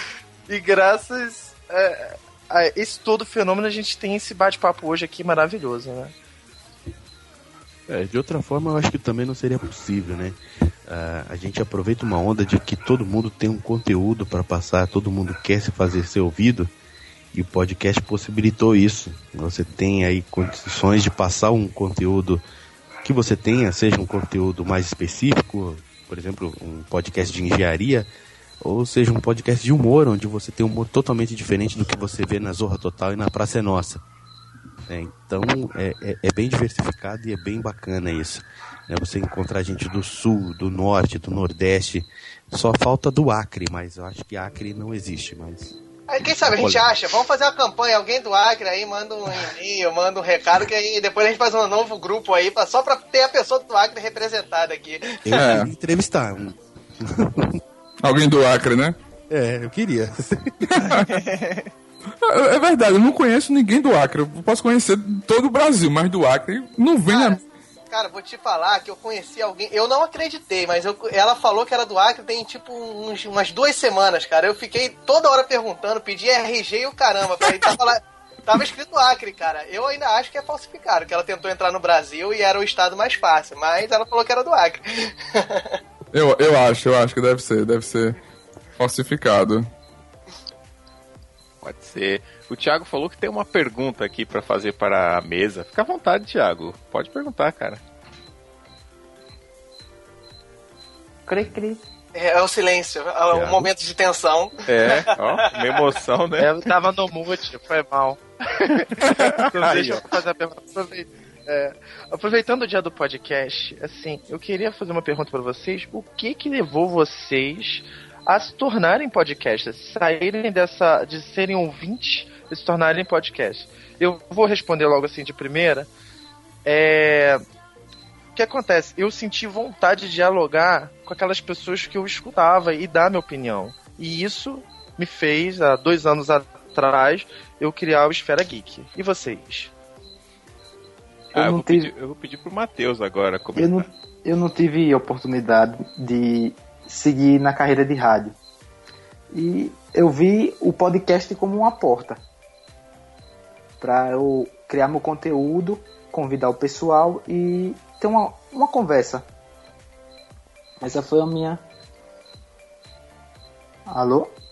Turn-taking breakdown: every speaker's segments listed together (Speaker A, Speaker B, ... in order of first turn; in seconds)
Speaker A: 0.5-6.1, 61.2-61.6, 106.4-125.9, 126.7-127.4, 128.4-139.7
Speaker B: 7.9-16.7, 17.3-22.4, 23.0-28.1, 28.6-34.0, 34.9-45.8, 46.5-46.9, 55.2-57.6, 59.3-60.9, 103.3-103.7
Speaker C: 46.1-55.4, 67.1-67.4, 67.9-85.8, 102.2-105.0
Speaker D: 55.4-55.7, 58.0-59.0, 60.7-61.1, 62.2-67.4, 86.1-88.2, 88.8-89.7
Speaker E: 91.6-97.8, 104.7-106.6, 109.0-110.0, 141.3-143.9
Speaker F: 101.3-101.8, 141.3-141.9, 143.6-148.4, 149.3-152.2, 153.8-159.3, 160.8-161.6, 163.9-164.3